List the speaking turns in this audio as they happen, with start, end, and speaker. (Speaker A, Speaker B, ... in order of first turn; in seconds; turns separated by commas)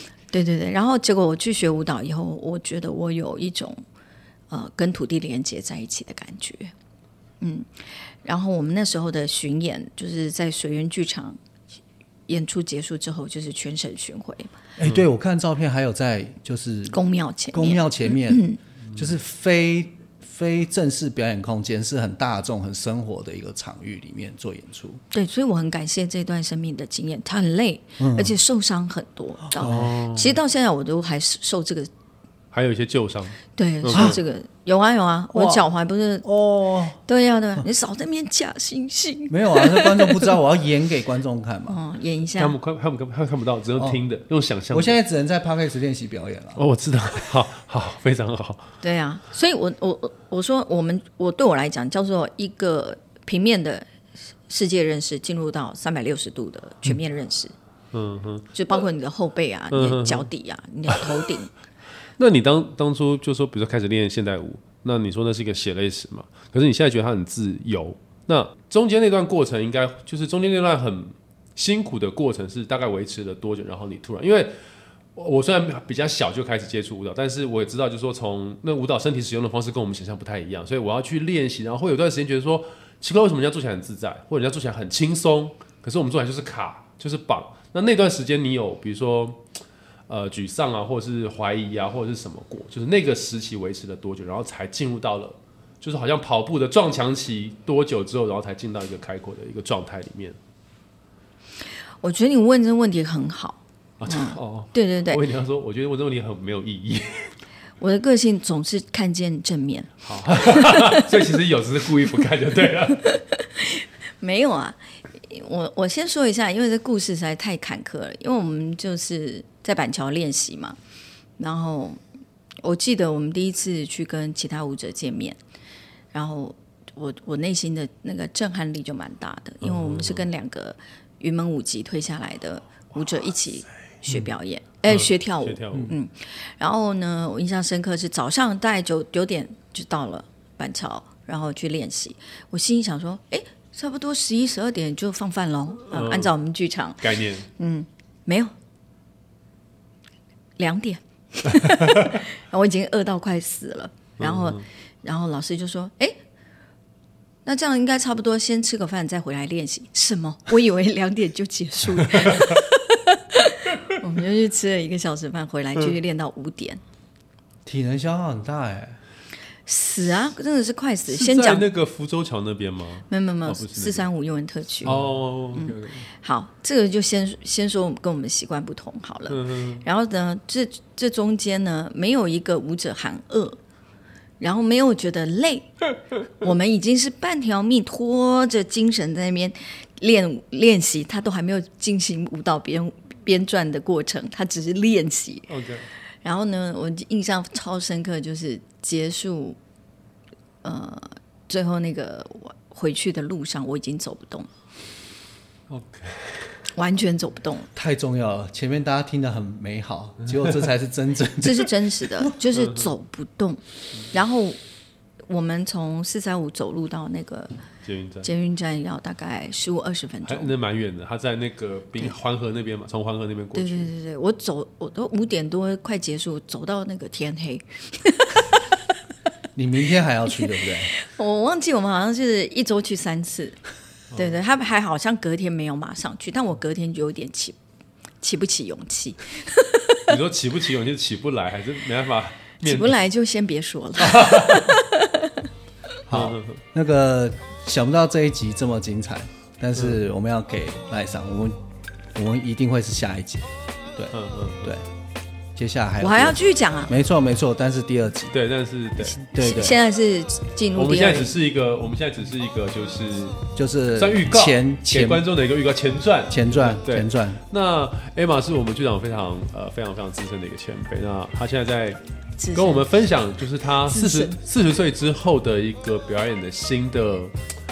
Speaker A: 0.3-3.8, Speaker A: 4.5-6.7, Speaker A: 7.4-7.7, Speaker A: 8.2-11.4, Speaker A: 12.3-14.5, Speaker B: 14.8-17.0, Speaker A: 16.9-18.6, Speaker B: 17.5-18.4, Speaker B: 18.9-25.0, Speaker A: 25.1-31.9, Speaker B: 28.0-28.3, Speaker B: 29.6-29.9, Speaker C: 29.6-30.4, Speaker C: 32.5-34.2, Speaker A: 33.5-36.3, Speaker B: 33.9-34.2, Speaker B: 35.3-35.6, Speaker B: 36.2-37.0, Speaker A: 37.0-40.3, Speaker B: 39.3-41.8, Speaker A: 41.7-42.6, Speaker C: 42.4-45.0, Speaker B: 44.7-46.6, Speaker C: 46.5-48.7, Speaker A: 48.8-53.9, Speaker A: 54.5-57.5, Speaker C: 57.9-58.5, Speaker A: 58.5-61.5, Speaker C: 59.7-60.3, Speaker C: 62.2-74.5, Speaker C: 75.1-89.4, Speaker C: 90.1-100.4, Speaker A: 102.0-105.2, Speaker C: 104.0-107.3, Speaker A: 107.8-111.1, Speaker C: 110.0-113.2, Speaker A: 113.0-120.8, Speaker A: 121.4-122.0, Speaker A: 122.6-125.4, Speaker A: 126.1-148.5, Speaker C: 129.6-130.2, Speaker C: 134.8-135.9, Speaker C: 145.9-146.3, Speaker C: 147.0-147.5, Speaker A: 150.6-156.2, Speaker C: 154.2-154.6, Speaker A: 157.4-166.8, Speaker C: 162.1-162.5, Speaker B: 167.7-169.0, Speaker A: 169.7-171.7, Speaker C: 171.1-174.0, Speaker A: 173.1-175.0, Speaker C: 174.8-176.1, Speaker A: 175.5-183.6, Speaker C: 179.3-179.8, Speaker A: 184.4-185.7, Speaker A: 186.3-195.5, Speaker C: 195.5-195.8, Speaker A: 196.2-199.6, Speaker A: 200.6-204.5, Speaker C: 205.7-206.4, Speaker A: 206.7-207.7, Speaker B: 207.7-212.3, Speaker A: 211.4-214.6, Speaker C: 212.5-212.9, Speaker A: 215.3-217.5, Speaker C: 217.8-218.3, Speaker A: 218.2-220.5, Speaker C: 220.2-223.9, Speaker A: 223.6-228.6, Speaker B: 229.5-230.9, Speaker A: 230.4-233.6, Speaker A: 234.1-237.6, Speaker A: 238.2-240.2, Speaker C: 240.1-243.0, Speaker A: 242.6-245.5, Speaker C: 244.0-244.7, Speaker B: 246.1-251.5, Speaker C: 246.1-246.6, Speaker B: 252.1-254.8, Speaker C: 254.1-254.7, Speaker B: 255.6-258.3, Speaker A: 256.0-256.9, Speaker C: 258.3-259.2, Speaker B: 259.1-259.8, Speaker A: 259.4-261.3, Speaker C: 260.7-263.4, Speaker B: 263.6-265.2, Speaker C: 263.9-272.0, Speaker B: 266.3-267.4, Speaker A: 272.4-272.9, Speaker C: 272.5-277.3, Speaker A: 273.9-274.4